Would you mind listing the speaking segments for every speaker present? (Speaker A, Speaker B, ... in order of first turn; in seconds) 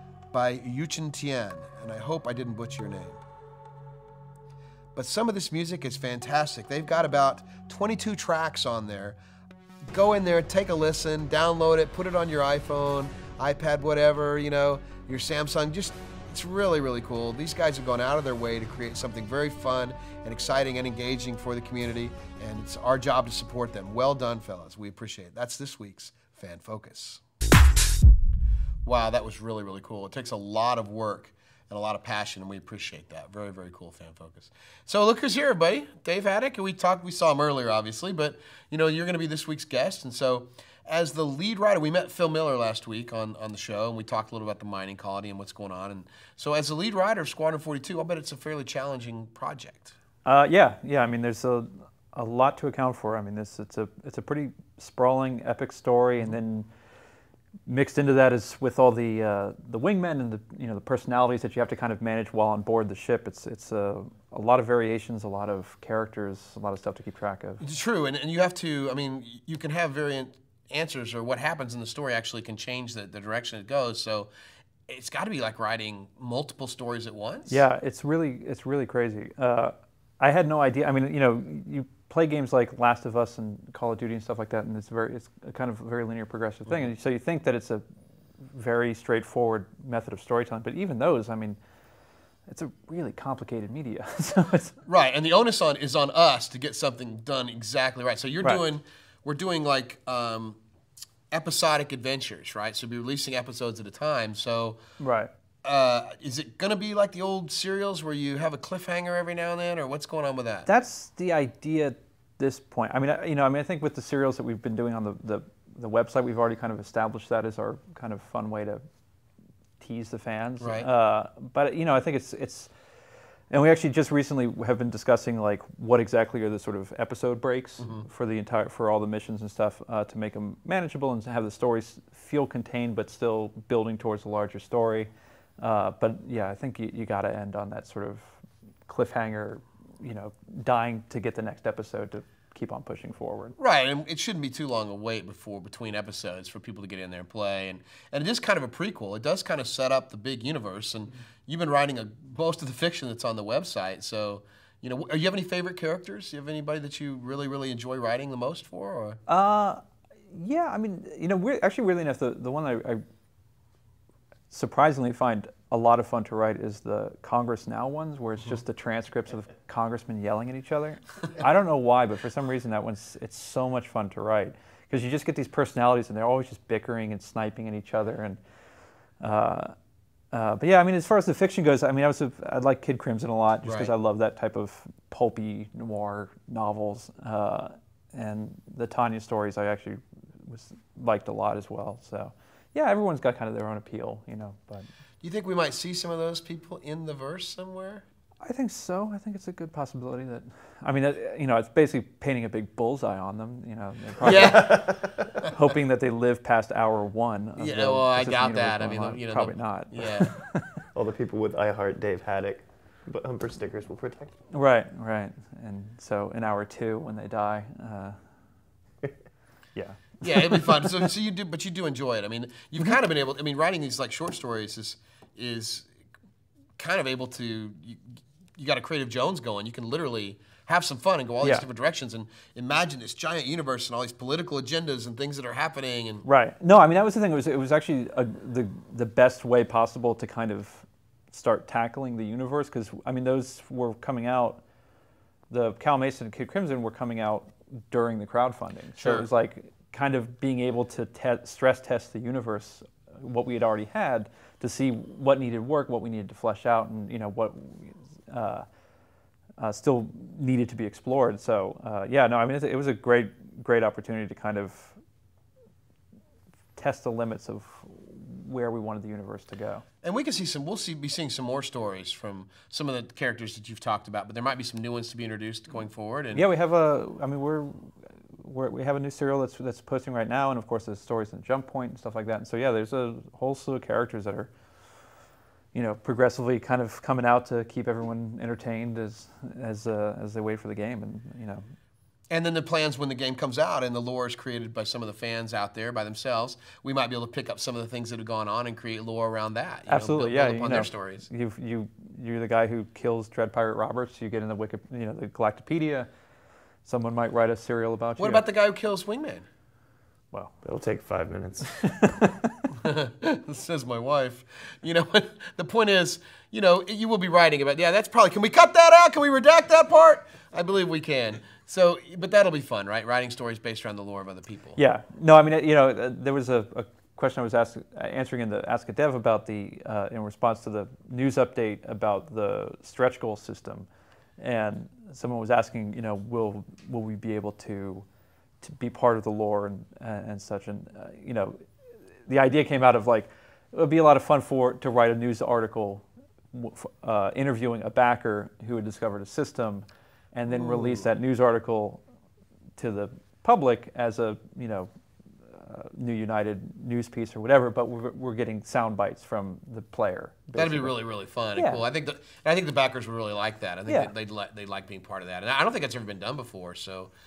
Speaker A: 0.3-3.2, 5.0-9.2, 9.9-27.2, 28.8-50.0, 67.6-74.3, 74.9-77.6, 94.9-100.6, 101.3-104.8, 105.6-110.7, 120.6-120.9, 127.8-128.1, 143.6-159.2, 183.6-183.9, 195.2-198.0, 204.2-204.9, 207.6-210.3, 220.2-225.9, 226.8-228.0, 228.6-236.2, 249.0-249.3, 270.0-276.4, 292.3-301.3, 308.2-309.5, 312.8-324.8, 350.5-351.1, 360.6-367.1
Speaker B: 50.2-56.7, 57.6-67.6, 77.5-87.8, 88.5-91.6, 92.5-94.8, 105.0-105.3, 110.7-118.8, 119.8-122.7, 123.5-143.6, 159.3-163.0, 164.5-178.4, 179.2-179.8, 180.3-194.9, 198.4-204.9, 205.4-210.7, 214.5-218.2, 219.8-220.7, 236.2-244.6, 245.5-258.6, 259.6-265.0, 266.8-269.9, 276.3-284.5, 285.7-291.7, 299.9-306.1, 306.9-308.4, 311.8-312.5, 324.8-333.9, 334.4-338.1, 338.6-341.6, 342.3-352.0, 352.8-354.9, 355.5-360.9, 361.6-361.8
Speaker C: 204.4-204.9, 210.9-214.4, 310.6-312.1